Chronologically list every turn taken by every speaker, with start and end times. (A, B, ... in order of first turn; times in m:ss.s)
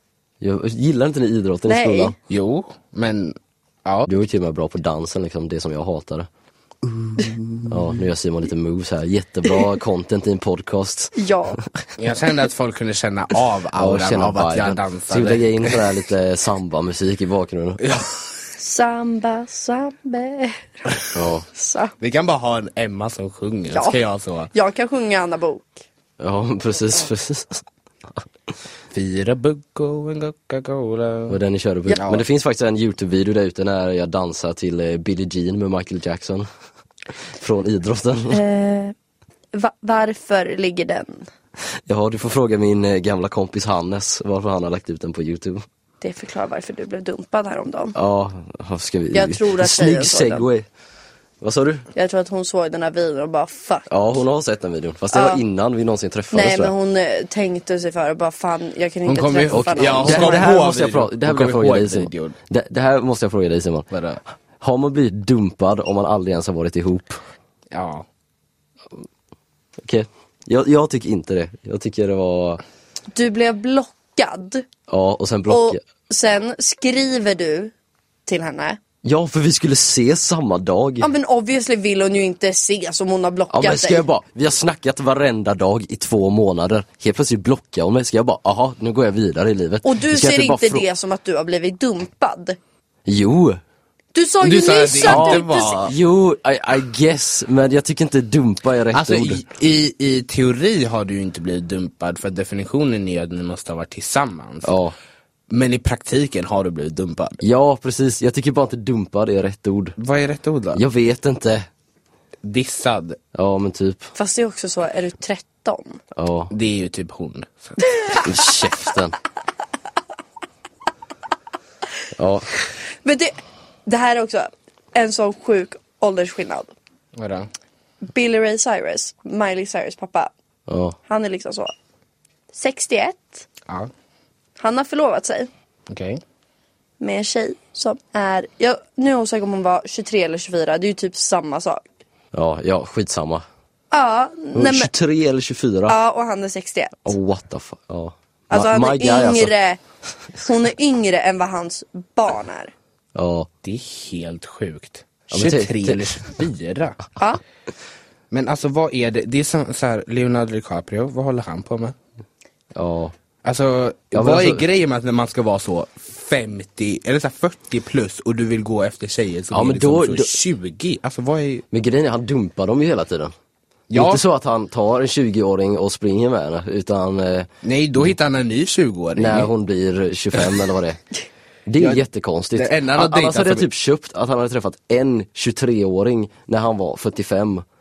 0:00.4-0:02.2 A
0:01.7-0:02.1 B
0:02.3-0:04.1 C
0:04.1-0:06.3 A
0:07.2-0:11.9 A
0:11.2-0:11.6 B
0:12.0-0:15.9 C
0:13.8-0:17.8 A
0:17.8-0:18.1 C
0:18.6-0:20.7 B
0:21.1-0:21.4 A
0:21.5-0:21.9 B
0:22.0-0:24.5 C
0:23.7-0:24.0 B
0:24.5-0:25.7 B
0:26.2-0:27.6 A
0:28.9-0:31.4 C
0:31.3-0:36.5 A
0:31.9-0:32.2 C
0:37.3-0:38.4 A
0:38.3-0:38.9 B
0:39.5-0:41.3 B
0:41.9-0:45.6 A
0:46.0-0:47.9 B
0:47.9-0:50.7 A
0:49.1-0:50.5 B
0:51.4-0:51.8 A
0:51.9-0:53.9 B
0:53.9-0:56.7 A
0:55.1-0:55.4 B
0:56.3-1:00.5 B
0:59.1-1:02.4 C
0:59.5-1:03.9 A
1:03.9-1:04.2 C
1:04.6-1:07.2 A
1:07.7-1:08.0 C
1:09.8-1:12.6 A
1:13.1-1:14.6 B
1:14.9-1:15.8 A
1:15.5-1:17.7 B
1:18.2-1:18.8 B
1:19.0-1:21.1 A
1:21.0-1:24.0 B
1:23.5-1:30.9 A
1:29.8-1:32.6 B
1:33.0-1:33.6 A
1:34.1-1:35.8 B
1:34.4-1:35.9 C
1:35.0-1:39.4 A
1:38.9-1:44.8 C
1:44.6-1:44.9 A
1:45.5-1:47.4 C
1:47.4-1:50.0 A
1:50.0-1:50.8 C
1:50.7-1:51.7 A
1:52.4-1:53.2 C
1:53.3-1:54.1 A
1:54.2-1:56.0 B
1:56.1-1:56.5 A
1:56.5-1:57.8 C
1:57.8-1:58.3 B
1:58.2-1:59.2 A
2:02.2-2:02.5 A
2:03.0-2:06.8 B
2:07.1-2:07.5 C
2:08.0-2:10.3 B
2:10.7-2:11.0 A
2:11.1-2:11.7 B
2:12.5-2:13.4 B
2:14.6-2:15.5 B
2:15.9-2:16.2 C
2:17.0-2:21.8 B
2:22.3-2:23.4 A
2:23.9-2:24.9 B
2:24.5-2:26.0 A
2:25.9-2:27.1 B
2:27.0-2:29.5 A
2:28.5-2:29.8 B
2:30.4-2:32.7 B
2:33.1-2:33.5 A
2:33.6-2:37.0 C
2:35.3-2:36.2 A
2:38.3-2:41.9 C
2:42.7-2:43.1 A
2:43.4-2:51.6 C
2:44.1-2:44.6 A
2:49.5-2:50.4 A
2:51.7-2:53.3 A
2:53.9-2:54.2 C
2:53.9-2:57.5 A
2:57.6-2:59.5 C
2:59.2-3:01.0 A
3:01.7-3:07.6 A
3:01.8-3:02.0 C
3:02.5-3:03.7 C